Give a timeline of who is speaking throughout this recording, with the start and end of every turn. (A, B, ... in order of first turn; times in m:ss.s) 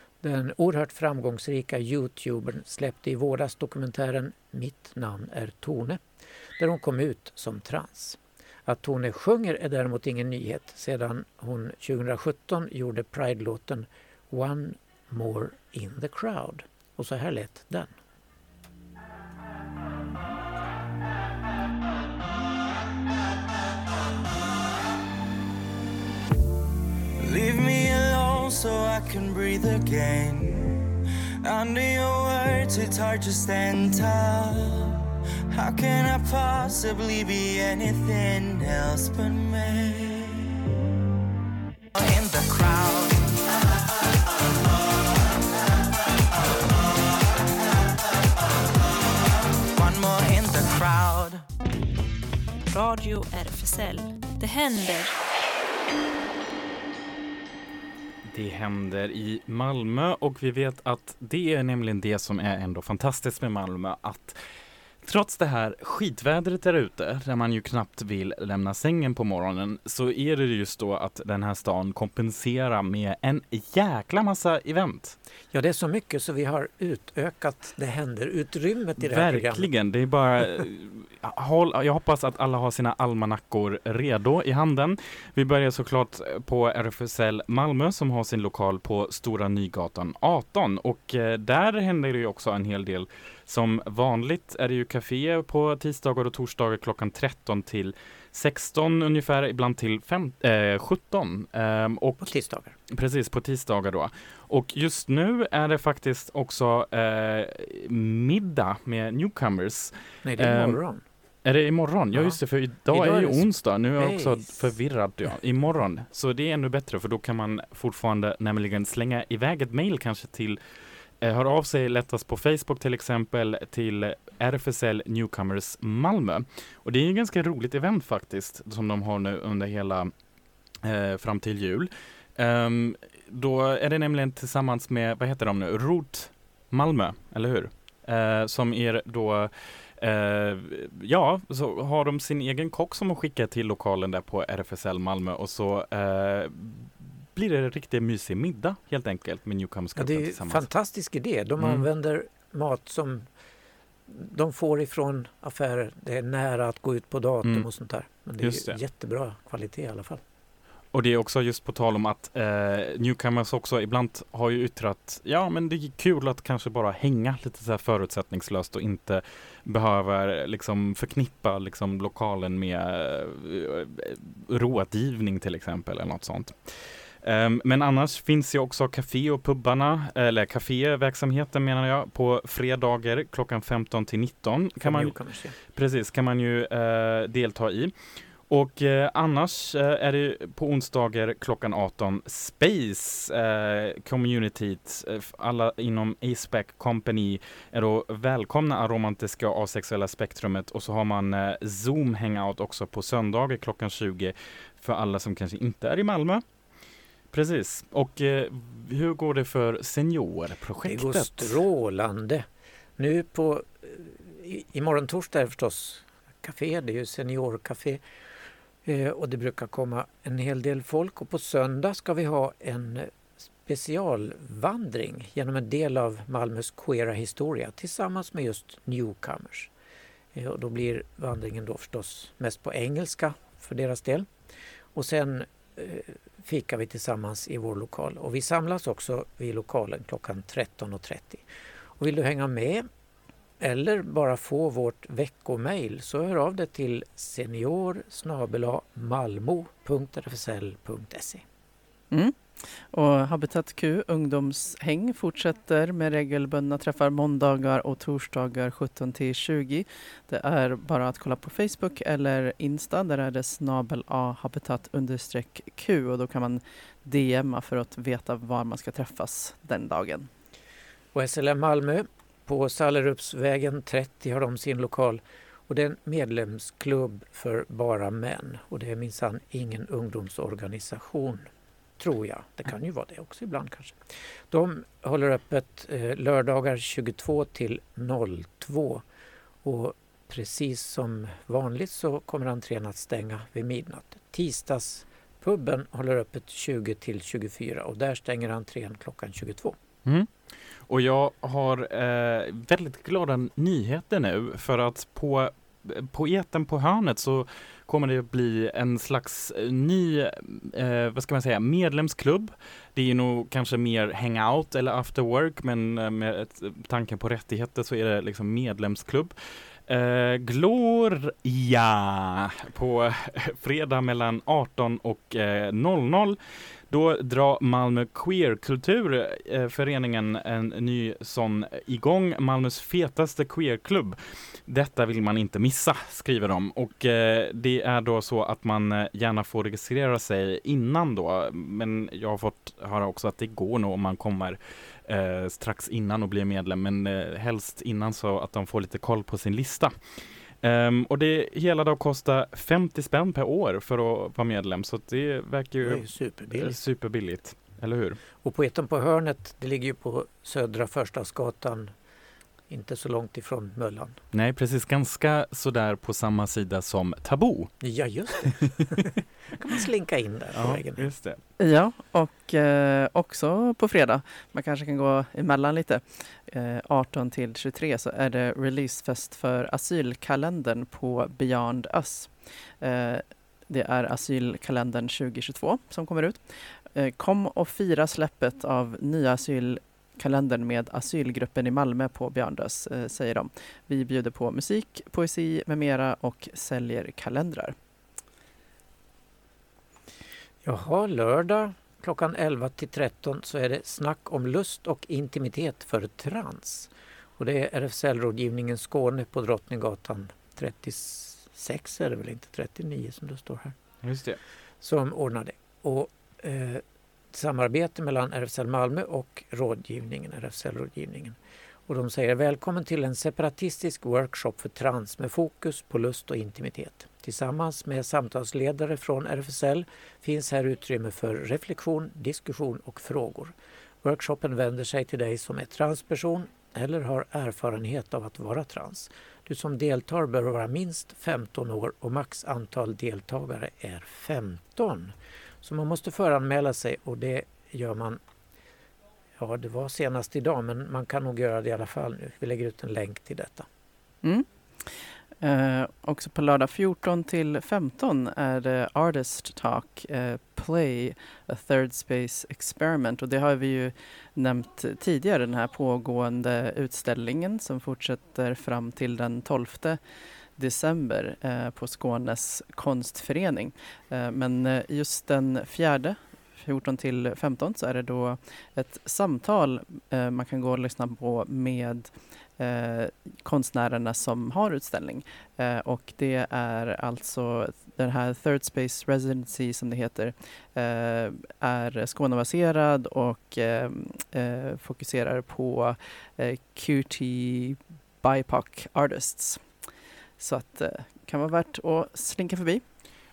0:00.2-0:06.0 A
0:06.6-0:17.9 A
0:27.2-0:30.9 B
0:31.4-0:40.5 B
0:42.0-0:43.3 B
0:49.7-0:51.4 B
0:52.7-0:55.1 C
0:58.2-1:04.4 D
1:05.0-1:15.2 D
1:15.5-1:19.7 A
1:19.0-1:42.3 D
1:42.2-1:42.7 A
1:42.9-1:50.8 D
1:50.2-1:51.0 A
1:51.4-2:00.6 D
1:52.1-1:54.5 A
2:01.2-2:10.1 D
2:10.8-2:30.7 D
2:30.0-2:33.3 A
2:31.6-2:31.8 D
2:34.1-2:40.2 A
2:38.4-2:38.8 D
2:40.9-3:05.2 D
3:04.8-3:05.6 A
3:05.7-3:07.9 D
3:08.5-3:26.4 D
3:27.3-3:31.6 D
3:30.8-3:32.4 A
3:33.0-3:38.0 A
3:38.8-3:49.7 A
3:50.3-3:54.3 A
3:54.9-4:01.4 A
4:02.0-4:02.9 A
4:03.6-4:11.4 A
4:12.1-4:30.3 E
4:31.1-4:49.0 A
4:49.6-4:59.8 A
5:00.9-5:19.3 D
5:19.9-5:26.4 D
5:26.9-5:49.9 D
5:50.6-5:58.2 D
5:55.8-5:56.8 A
5:58.4-6:01.9 A
6:02.7-6:04.2 A
6:04.3-6:07.7 D
6:07.8-6:11.1 A
6:08.4-6:09.0 D
6:10.5-6:11.4 D
6:11.6-6:26.4 E
6:26.9-6:37.7 E
6:40.6-6:53.7 A
6:54.0-6:54.4 D
6:54.8-7:28.2 A
7:29.4-7:33.7 A
7:35.4-7:50.0 E
7:50.6-8:19.6 E
8:20.4-8:22.8 E